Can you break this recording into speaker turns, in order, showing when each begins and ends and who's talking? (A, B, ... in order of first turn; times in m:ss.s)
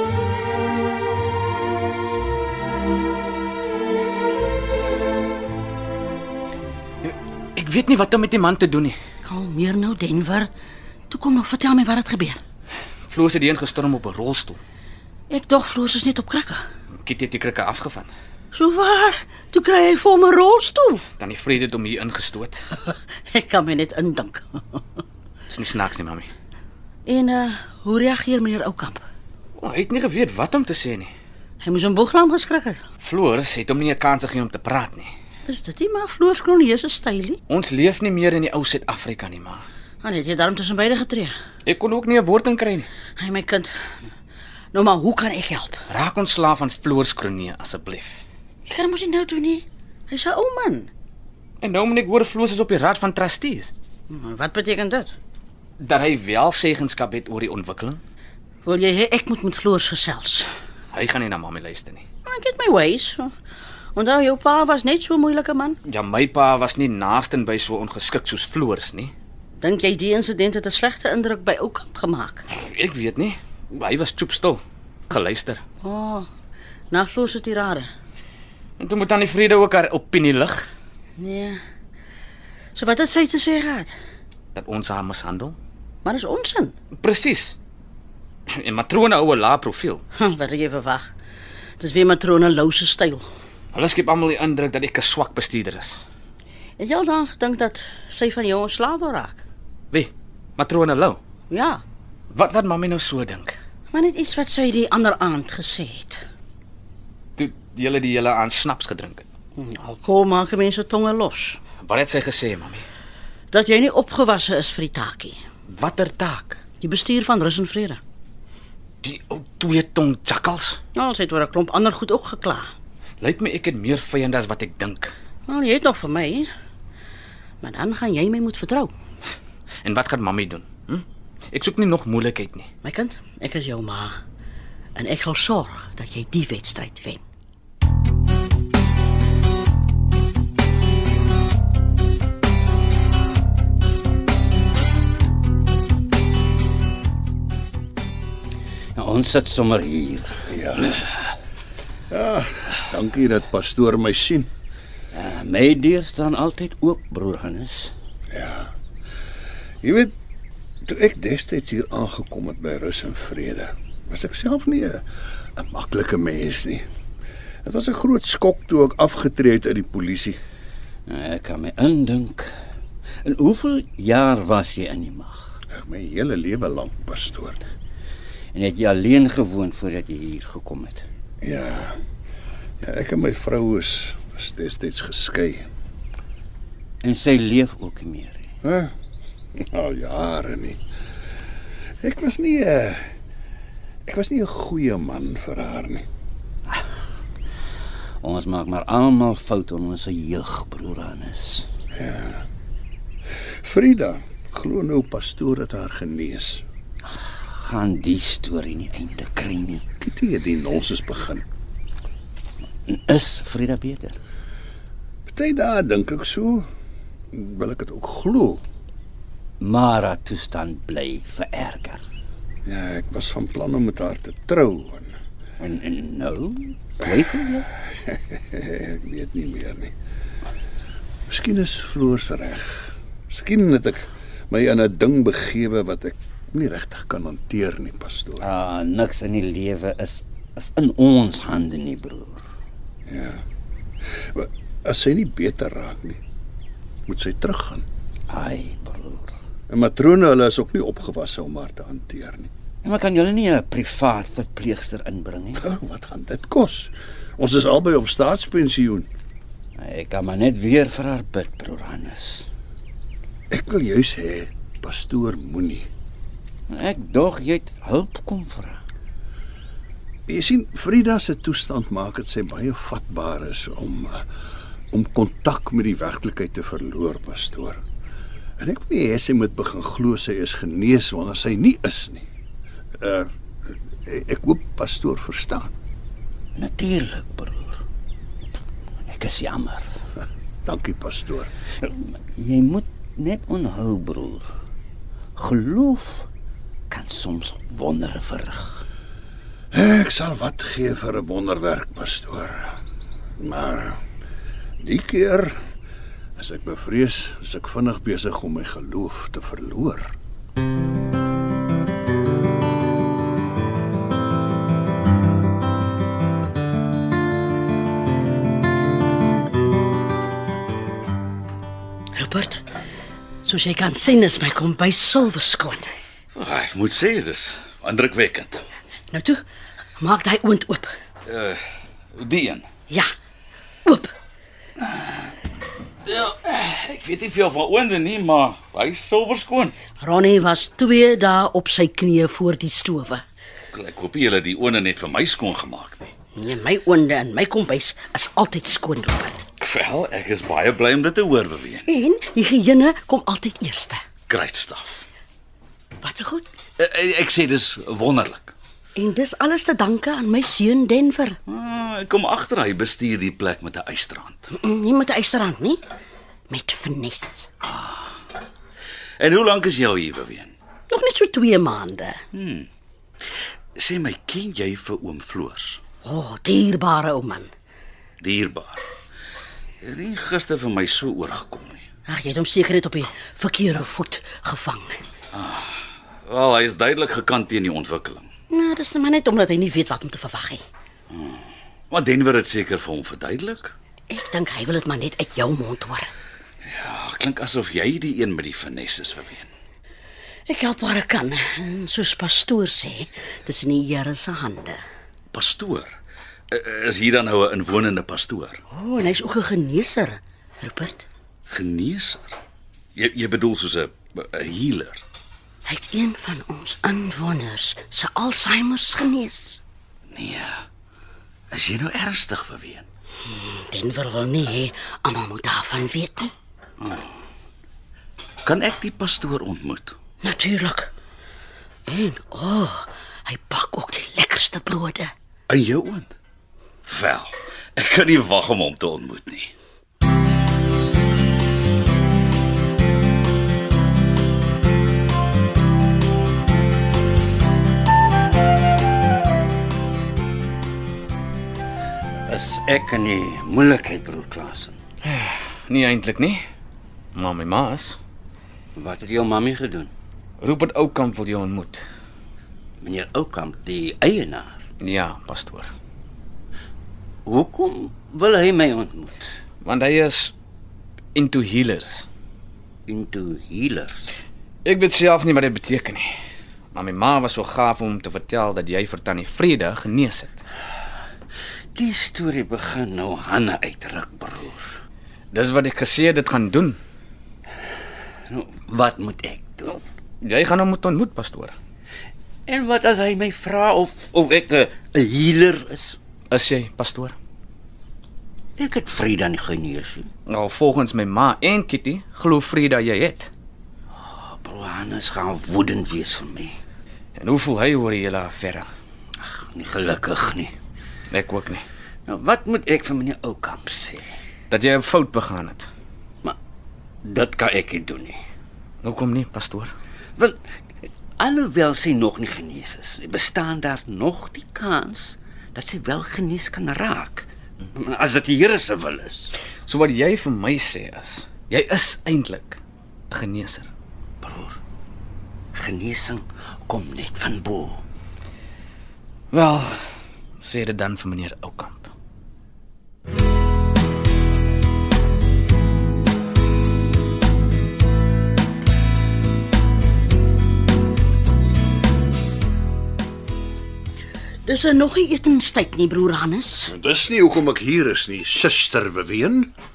0:07.0-0:09.0 A
0:09.2-0:10.5 B
0:11.1-0:12.4 B
0:13.1-0:14.6 A
0:15.3-0:16.6 B
0:17.0-0:18.1 A
0:18.5-0:21.0 B
0:21.2-0:22.6 A
0:22.8-0:24.8 B
0:25.5-0:26.3 A
0:27.0-0:29.0 B
0:29.6-0:31.1 A
0:31.6-0:32.8 B
0:33.0-0:35.1 A
0:35.4-0:37.4 B
0:37.5-0:39.6 A
0:40.0-0:41.3 B
0:41.6-0:42.9 A
0:43.2-0:43.7 B
0:44.7-0:45.8 B
0:45.9-0:48.2 A
0:48.6-0:50.9 B
0:51.6-0:53.7 A
0:54.1-0:55.1 B
0:55.8-0:58.0 A
0:58.6-1:00.5 B
1:00.9-1:02.0 A
1:02.2-1:03.3 B
1:03.9-1:05.8 B
1:05.8-1:09.1 A
1:09.6-1:12.4 B
1:12.5-1:15.6 A
1:15.8-1:16.3 B
1:16.9-1:17.9 B
1:18.8-1:20.7 A
1:21.2-1:21.6 B
1:22.7-1:23.9 B
1:24.5-1:25.6 A
1:26.0-1:26.7 B
1:27.0-1:27.6 A
1:28.5-1:30.0 A
1:30.2-1:31.1 B
1:31.8-1:33.2 B
1:33.7-1:36.0 A
1:36.8-1:39.4 B
1:39.9-1:41.2 A
1:41.5-1:41.8 B
1:42.3-1:43.6 A
1:43.9-1:46.2 B
1:47.4-1:49.2 A
1:49.6-1:51.6 B
1:51.8-1:52.8 A
1:53.5-1:55.4 B
1:55.7-1:56.6 A
1:56.8-1:58.0 B
1:59.0-2:00.8 A
2:00.9-2:02.7 B
2:03.2-2:05.1 A
2:05.5-2:06.5 B
2:07.6-2:08.9 B
2:09.8-2:12.7 A
2:12.8-2:14.1 B
2:14.9-2:17.2 B
2:29.0-2:30.4 C
2:30.5-2:31.0 D
2:32.1-2:34.5 D
2:35.1-2:37.9 C
2:38.3-2:38.7 D
2:39.8-2:40.1 D
2:40.8-2:46.8 D
2:47.6-2:50.4 D
2:51.1-2:52.5 C
2:53.2-2:55.6 C
2:55.7-2:57.6 D
2:58.5-3:01.0 C
3:01.4-3:02.0 D
3:02.8-3:05.7 D
3:07.0-3:08.5 C
3:08.6-3:08.9 D
3:09.6-3:10.8 D
3:12.0-3:13.0 D
3:14.0-3:16.0 D
3:18.2-3:21.7 C
3:21.9-3:22.4 D
3:23.6-3:26.6 D
3:27.3-3:29.8 C
3:30.0-3:31.4 D
3:32.9-3:34.2 C
3:35.3-3:36.7 D
3:37.3-3:38.6 D
3:39.6-3:42.0 C
3:42.6-3:45.1 D
3:45.6-3:47.7 C
3:48.1-3:49.9 D
3:51.3-3:58.4 D
3:58.4-4:02.4 C
4:03.1-4:03.4 D
4:04.3-4:06.2 D
4:07.1-4:07.8 D
4:08.3-4:09.3 C
4:09.7-4:12.5 D
4:12.8-4:15.6 C
4:15.6-4:19.1 D
4:19.8-4:22.5 C
4:23.5-4:25.9 D
4:26.7-4:28.8 C
4:30.3-4:34.2 D
4:34.9-4:37.8 D
4:38.6-4:42.2 D
4:43.0-4:43.3 D
4:44.0-4:45.7 D
4:46.6-4:47.8 C
4:49.1-4:49.9 C
4:50.6-4:51.5 D
4:51.8-4:54.5 C
4:55.4-4:56.3 C
4:56.9-4:58.8 C
4:59.7-5:02.8 D
5:03.4-5:04.0 D
5:04.8-5:05.6 D
5:06.4-5:10.1 D
5:22.1-5:22.6 B
5:23.4-5:25.9 B
5:26.4-5:28.6 E
5:29.1-5:29.4 B
5:30.0-5:30.9 B
5:31.3-5:31.6 E
5:32.2-5:32.7 E
5:33.8-5:34.1 B
5:36.1-5:39.8 E
5:40.0-5:43.2 B
5:43.7-5:46.1 E
5:46.3-5:49.5 B
5:49.6-5:51.8 E
5:51.9-5:54.0 B
5:54.3-5:55.0 E
5:56.0-5:56.5 B
5:56.8-5:58.5 E
5:59.0-6:01.4 B
6:01.5-6:04.5 E
6:04.5-6:05.8 B
6:06.5-6:07.5 B
6:07.7-6:07.9 E
6:09.2-6:10.5 E
6:10.9-6:12.2 B
6:12.3-6:12.7 E
6:13.8-6:15.8 E
6:16.0-6:17.5 B
6:18.2-6:18.8 E
6:19.8-6:21.8 E
6:22.1-6:25.0 B
6:25.3-6:28.3 E
6:28.5-6:30.6 B
6:31.9-6:33.7 E
6:34.1-6:36.1 B
6:36.7-6:39.5 E
6:40.5-6:44.8 B
6:45.3-6:45.9 E
6:46.5-6:48.6 E
6:48.7-6:51.0 B
6:51.5-6:52.2 E
6:52.9-6:55.0 E
6:55.6-6:59.6 B
7:00.1-7:00.4 E
7:01.5-7:02.8 E
7:03.2-7:06.3 B
7:08.4-7:10.0 E
7:10.2-7:10.9 B
7:11.9-7:15.1 B
7:15.5-7:16.1 E
7:16.9-7:19.5 E
7:32.2-7:34.8 C
7:35.0-7:36.4 A
7:37.1-7:38.0 A
7:38.7-7:39.9 C
7:40.4-7:41.8 A
7:42.8-7:44.6 C
7:44.8-7:45.7 A
7:47.2-7:49.2 C
7:49.6-7:50.3 A
7:51.1-7:52.0 A
7:52.9-7:54.1 C
7:54.6-7:56.1 A
7:56.7-8:00.4 A
8:01.7-8:04.7 C
8:05.3-8:06.8 A
8:08.3-8:09.8 C
8:10.2-8:11.5 A
8:12.5-8:16.0 C
8:16.3-8:17.1 A
8:18.6-8:20.1 C
8:20.3-8:23.3 A
8:24.0-8:26.6 C
8:27.2-8:28.7 A
8:29.2-8:30.5 C
8:31.1-8:31.6 A
8:32.1-8:34.0 C
8:34.5-8:35.7 A
8:37.0-8:38.2 C
8:38.8-8:39.7 A
8:41.2-8:49.4 C
8:49.6-8:52.6 A
8:53.1-8:53.7 A
8:54.2-8:54.5 C
8:55.5-8:57.8 C
8:59.3-9:01.9 A
9:14.4-9:16.7 B
9:16.7-9:19.5 D